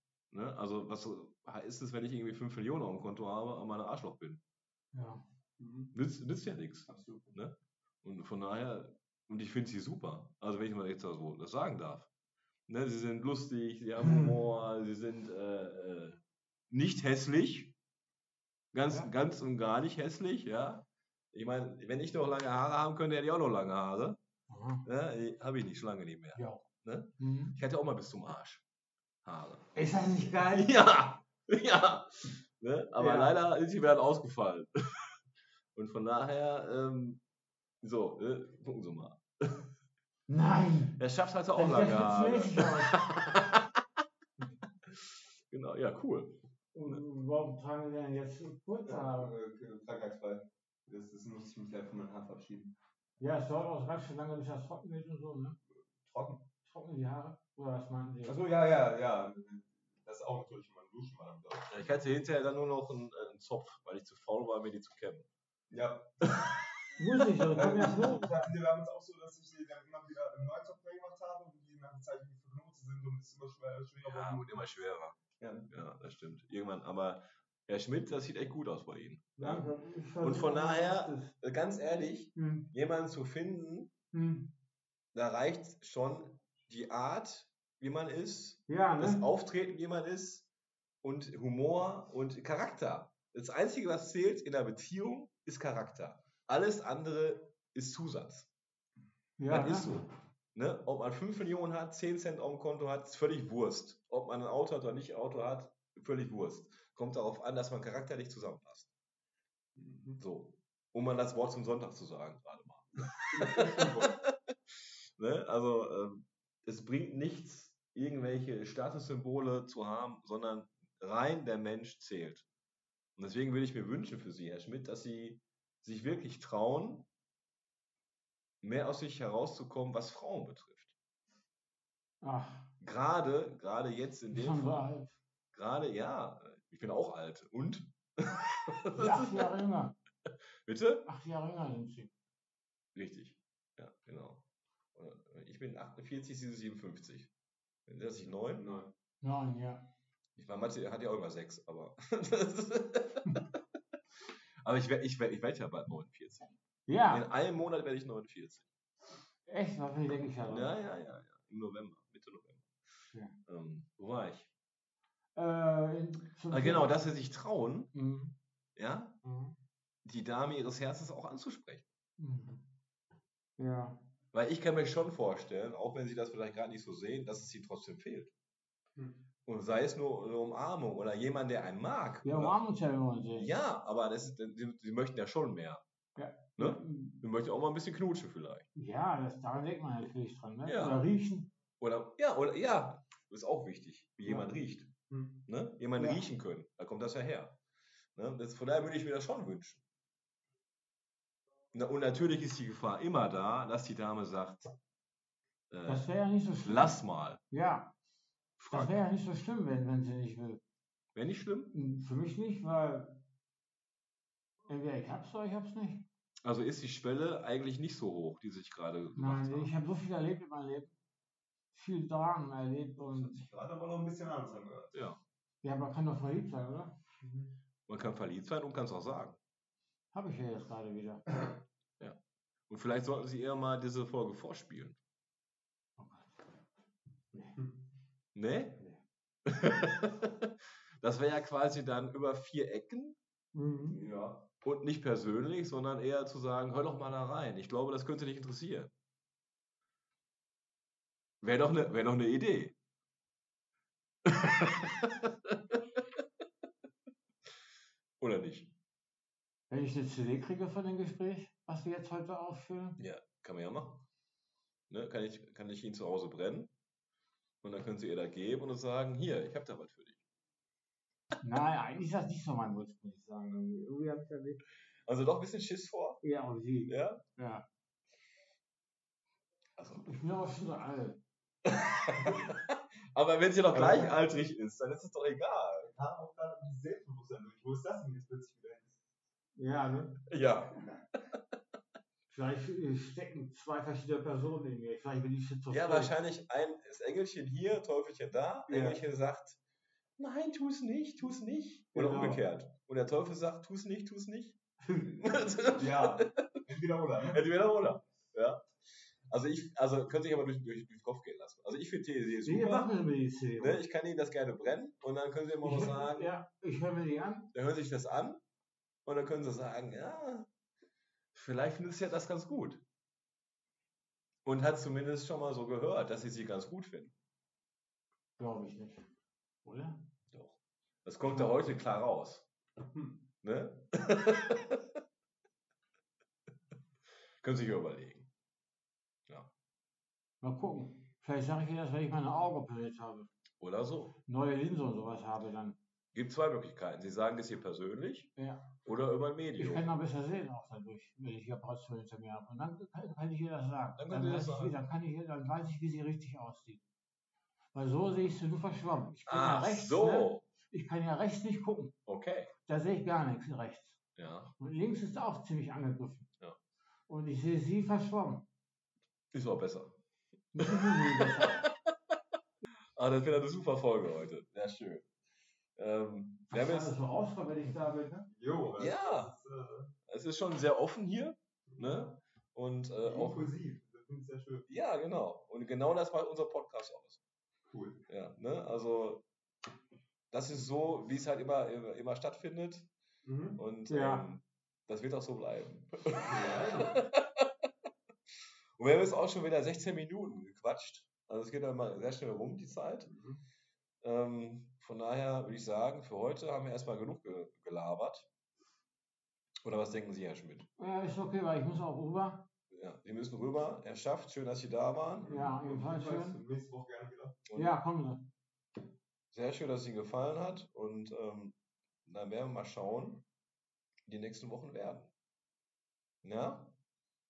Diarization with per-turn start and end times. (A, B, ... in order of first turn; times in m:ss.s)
0:00.3-0:04.4 A
0:04.9-0:05.2 B
0:05.6-0:05.9 C
0:05.9-0:12.1 A
0:06.9-0:07.4 C
0:12.7-0:17.8 A
0:18.7-0:24.2 A
0:24.5-0:24.9 B
0:24.8-0:28.6 A
0:26.3-0:26.6 B
0:27.2-0:27.6 B
0:29.2-0:29.6 A
0:29.7-0:30.7 B
0:30.3-0:35.1 A
0:33.0-0:33.4 B
0:35.8-0:37.2 A
0:37.8-0:39.6 A
0:40.3-0:41.0 B
0:41.0-0:43.6 A
0:41.5-0:43.0 B
0:45.5-0:47.0 A
0:46.7-0:49.3 B
0:48.9-0:52.8 C
0:53.2-0:55.6 B
0:55.9-0:56.5 C
0:56.6-0:58.4 B
0:58.2-1:01.8 C
1:01.7-1:05.3 A
1:05.7-1:06.4 C
1:07.0-1:08.3 B
1:07.4-1:07.9 A
1:07.5-1:14.8 C
1:14.0-1:15.2 A
1:15.4-1:15.7 C
1:15.7-1:19.6 A
1:19.4-1:19.8 C
1:19.4-1:21.4 B
1:20.2-1:23.9 A
1:22.4-1:22.7 B
1:24.1-1:24.5 B
1:25.1-1:30.5 A
1:28.7-1:29.3 B
1:31.0-1:38.5 A
1:39.4-1:40.0 B
1:39.5-1:48.9 A
1:49.8-1:50.2 C
1:50.2-1:54.3 A
1:53.3-1:54.1 C
1:55.2-2:02.5 A
2:03.2-2:07.1 A
2:08.6-2:10.9 A
2:12.2-2:12.7 B
2:12.8-2:14.9 A
2:14.3-2:15.2 B
2:15.5-2:19.6 A
2:18.9-2:20.0 B
2:20.7-2:21.1 A
2:21.0-2:22.1 B
2:23.0-2:27.3 A
2:27.9-2:28.7 A
2:28.6-2:28.9 C
2:29.2-2:29.9 B
2:30.4-2:33.4 A
2:34.6-2:36.6 A
2:36.9-2:37.3 B
2:37.1-2:38.7 A
2:39.5-2:40.8 B
2:40.4-2:42.7 A
2:43.1-2:43.4 B
2:43.5-2:44.5 A
2:45.4-2:47.0 B
2:46.5-2:47.9 A
2:47.9-2:48.4 B
2:48.8-2:49.2 A
2:49.2-2:49.6 C
2:50.0-2:51.8 A
2:52.2-2:52.6 B
2:53.6-2:54.0 B
2:54.3-2:58.3 A
2:59.5-3:02.6 A
3:02.2-3:03.5 B
3:03.4-3:05.8 A
3:06.2-3:07.2 B
3:06.6-3:08.7 A
3:08.8-3:11.5 B
3:10.7-3:11.0 A
3:11.8-3:14.9 A
3:15.1-3:15.4 C
3:15.5-3:17.6 A
3:16.0-3:16.3 B
3:18.2-3:19.8 A
3:21.7-3:24.7 A
3:25.7-3:26.1 A
3:25.8-3:27.9 B
3:26.6-3:27.4 A
3:28.6-3:29.0 A
3:28.7-3:30.6 B
3:31.2-3:31.8 A
3:31.7-3:33.2 B
3:34.7-3:36.1 B
3:36.4-3:39.7 A
3:39.2-3:41.0 B
3:41.7-3:43.5 B
3:43.1-3:44.9 C
3:44.9-3:45.2 A
3:45.6-3:47.0 B
3:47.2-3:47.5 C
3:47.9-3:49.4 A
3:50.1-3:51.3 B
3:52.0-3:55.0 A
3:56.0-3:56.4 B
3:58.4-3:58.8 A
3:59.5-4:00.5 A
4:01.0-4:03.2 A
4:03.5-4:04.0 B
4:04.0-4:08.9 A
4:11.4-4:12.8 A
4:14.3-4:15.8 A
4:18.2-4:18.7 A
4:19.7-4:23.0 B
4:23.0-4:24.0 A
4:24.9-4:26.7 A
4:27.6-4:30.2 A
4:31.4-4:34.6 B
4:35.1-4:36.2 A
4:36.2-4:37.7 B
4:36.9-4:37.2 A
4:39.8-4:40.1 A
4:39.9-4:41.2 B
4:41.6-4:45.9 A
4:43.7-4:44.2 C
4:45.8-4:48.9 C
4:49.6-4:50.2 B
4:50.3-4:50.9 A
4:52.3-4:56.2 B
4:55.7-4:59.6 A
4:58.7-4:59.0 B
5:00.2-5:06.5 A
5:01.9-5:02.4 C
5:04.9-5:05.2 B
5:05.8-5:07.4 C
5:07.2-5:08.7 A
5:09.3-5:12.9 A
5:12.4-5:13.8 B
5:13.6-5:16.4 A
5:15.6-5:17.5 B
5:17.5-5:18.4 A
5:19.0-5:20.5 A
5:21.3-5:22.8 A
5:24.5-5:27.1 A
5:28.4-5:29.1 B
5:29.6-5:30.1 B
5:30.3-5:32.5 A
5:32.9-5:33.2 C
5:33.4-5:34.8 A
5:37.4-5:38.3 A
5:40.4-5:43.3 B
5:43.6-5:44.2 A
5:44.3-5:45.8 B
5:46.1-5:48.3 A
5:48.4-5:48.7 B
5:48.8-5:49.9 A
5:49.6-5:56.8 B
5:54.0-5:54.8 A
5:57.7-6:02.0 B
5:59.3-6:00.4 A
6:02.1-6:02.5 A
6:02.7-6:04.0 B
6:04.2-6:04.5 A
6:04.6-6:06.3 B
6:07.1-6:08.4 B
6:09.3-6:10.0 A
6:10.5-6:11.6 B
6:10.6-6:11.7 A
6:13.0-6:15.1 A
6:15.8-6:17.0 A
6:16.5-6:18.3 B
6:18.3-6:19.9 C
6:18.8-6:19.3 A
6:20.1-6:23.5 A
6:21.7-6:22.2 C
6:23.0-6:24.7 C
6:24.7-6:27.2 A
6:27.7-6:28.1 C
6:28.1-6:29.3 A
6:30.3-6:32.9 A
6:33.2-6:33.6 C
6:33.6-6:37.4 A
6:33.9-6:34.3 B
6:36.3-6:36.9 C
6:38.8-6:43.1 A
6:43.1-6:43.4 C
6:44.0-6:48.3 A
6:49.6-6:50.7 A
6:50.8-6:52.5 B
6:52.7-6:55.4 A
6:55.2-6:57.4 C
6:55.3-6:56.4 B
6:57.5-6:57.8 A
6:57.5-6:58.3 B
6:59.3-7:03.3 A
7:04.1-7:05.1 A
7:06.2-7:06.8 A